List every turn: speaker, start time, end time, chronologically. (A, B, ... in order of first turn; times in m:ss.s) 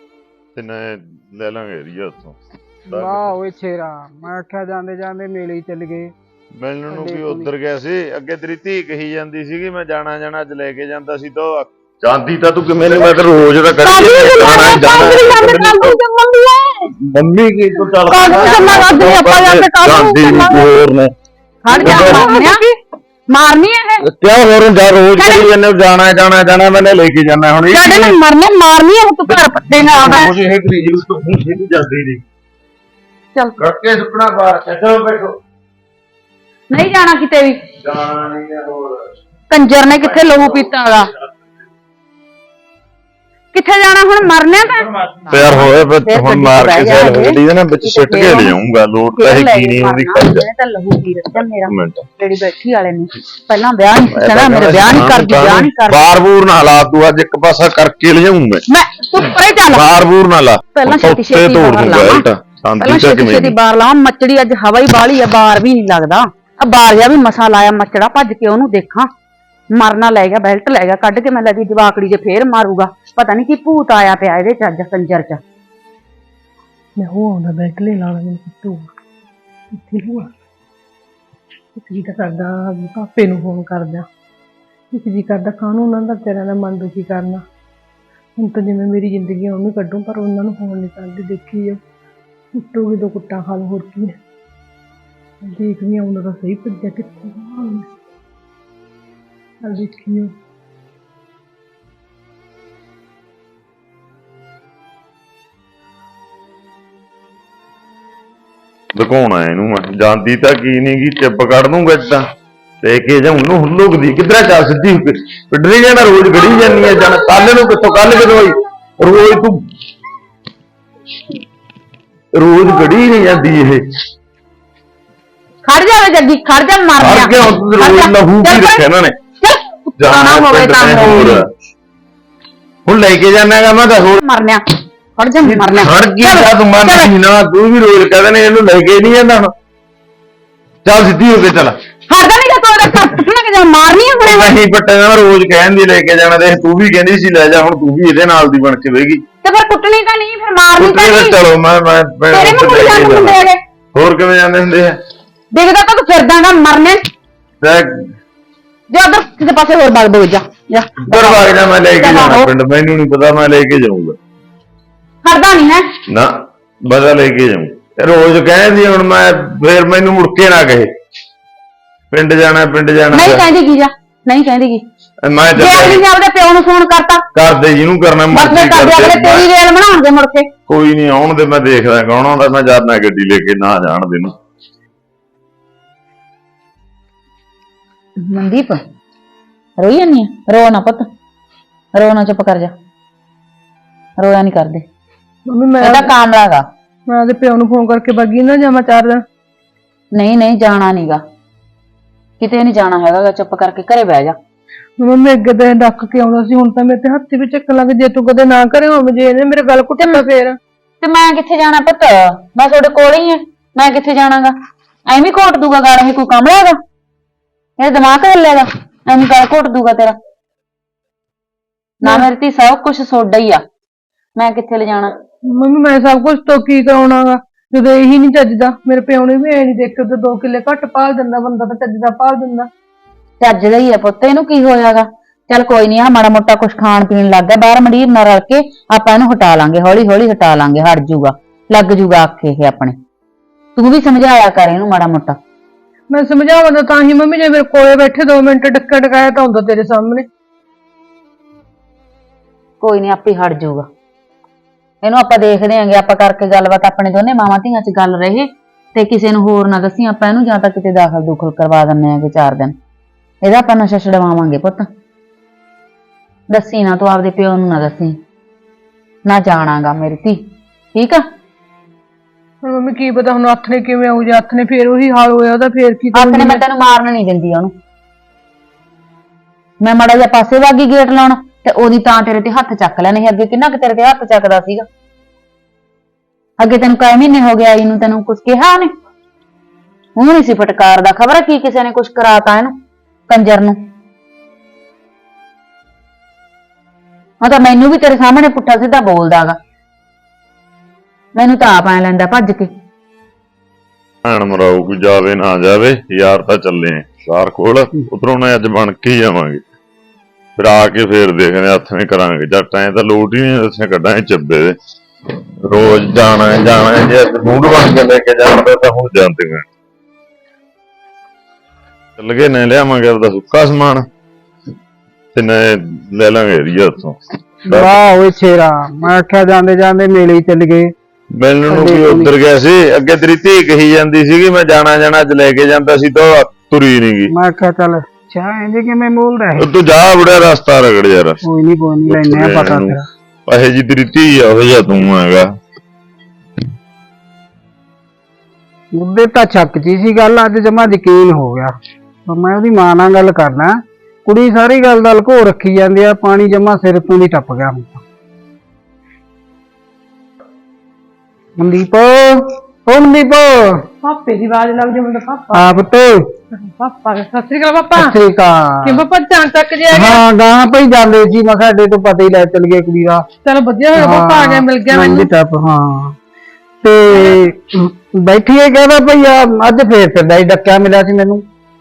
0:00.5-0:02.4 A
0:02.8-0:06.1 B
0:02.9-0:03.3 A
0:06.6-0:15.9 A
0:06.9-0:07.5 B
0:13.8-0:16.9 C
0:17.0-0:21.1 A
0:18.1-0:20.8 C
0:21.6-0:22.6 C
0:21.7-0:22.3 A
0:21.7-0:22.7 D
0:23.3-0:24.0 C
0:24.0-0:28.2 A
0:25.2-0:25.4 C
0:27.7-0:30.3 C
0:29.3-0:32.2 A
0:33.6-0:35.4 A
0:36.7-0:37.6 C
0:37.8-0:39.0 A
0:39.5-0:41.1 C
0:40.0-0:40.6 A
0:43.5-0:48.6 C
0:45.0-0:50.5 A
0:49.1-0:56.0 C
0:51.6-0:52.0 A
0:54.1-0:58.6 A
0:58.7-1:00.0 C
0:59.7-1:03.5 A
1:00.7-1:02.3 C
1:02.8-1:09.1 C
1:09.7-1:15.4 C
1:17.0-1:18.9 D
1:19.7-1:20.3 D
1:21.7-1:24.1 D
1:24.9-1:27.4 D
1:28.4-1:31.8 D
1:32.6-1:34.2 D
1:35.4-1:37.9 D
1:39.6-1:40.3 D
1:49.0-1:52.2 A
1:52.8-1:59.6 A
1:56.6-1:57.1 D
2:02.3-2:03.8 A
2:05.6-2:08.8 C
2:07.0-2:09.2 A
2:09.4-2:11.4 C
2:10.0-2:11.5 A
2:12.8-2:14.2 A
2:14.2-2:14.6 C
2:15.2-2:17.1 C
2:15.4-2:19.5 A
2:20.8-2:21.7 A
2:22.1-2:24.6 C
2:24.2-2:29.2 A
2:29.4-2:31.4 C
2:30.8-2:33.4 A
2:32.3-2:33.6 C
2:33.9-2:35.0 A
2:35.5-2:37.0 C
2:37.6-2:38.0 A
2:38.9-2:41.5 C
2:41.0-2:44.2 A
2:42.0-2:42.5 C
2:45.2-2:45.9 C
2:46.8-2:50.9 A
2:52.1-2:53.4 A
2:53.1-2:54.8 C
2:55.2-2:56.0 A
2:55.5-2:57.2 C
2:57.3-2:59.5 A
2:58.3-3:00.5 C
3:00.7-3:04.3 A
3:08.2-3:08.8 C
3:09.8-3:11.1 C
3:11.9-3:12.7 C
3:14.2-3:14.8 C
3:15.5-3:16.1 D
3:15.8-3:16.6 C
3:17.1-3:19.2 D
3:20.1-3:21.2 C
3:22.4-3:24.4 C
3:25.0-3:30.6 D
3:31.0-3:34.5 C
3:35.1-3:36.8 C
3:37.8-3:40.2 C
3:42.0-3:43.6 C
3:44.4-3:45.1 C
3:45.5-3:52.7 D
3:53.4-4:02.9 C
4:03.8-4:05.4 C
4:06.1-4:10.2 D
4:12.8-4:13.8 C
4:15.0-4:22.7 C
4:23.4-4:24.9 C
4:26.5-4:28.2 C
4:29.2-4:30.4 C
4:30.9-4:31.2 C
4:32.6-4:36.6 D
4:36.1-4:37.7 C
4:39.8-4:44.8 C
4:46.6-4:48.9 C
4:50.2-4:52.7 C
4:53.3-4:53.8 C
4:57.4-4:59.6 C
5:01.3-5:02.7 C
5:04.2-5:09.6 A
5:10.6-5:14.8 A
5:15.6-5:19.6 A
5:22.2-5:24.0 A
5:25.3-5:28.0 A
5:27.6-5:30.9 B
5:31.4-5:37.3 A
5:31.7-5:32.3 B
5:37.3-5:39.6 B
5:39.6-5:41.4 A
5:41.4-5:43.0 B
5:42.0-5:45.5 A
5:48.9-5:51.7 B
5:52.3-5:58.0 B
6:01.6-6:03.8 B
6:04.0-6:05.7 D
6:05.5-6:06.2 B
6:06.6-6:08.2 D
6:07.9-6:09.0 B
6:08.8-6:10.2 D
6:09.9-6:13.2 B
6:13.4-6:15.3 D
6:13.9-6:16.1 B
6:16.8-6:21.4 B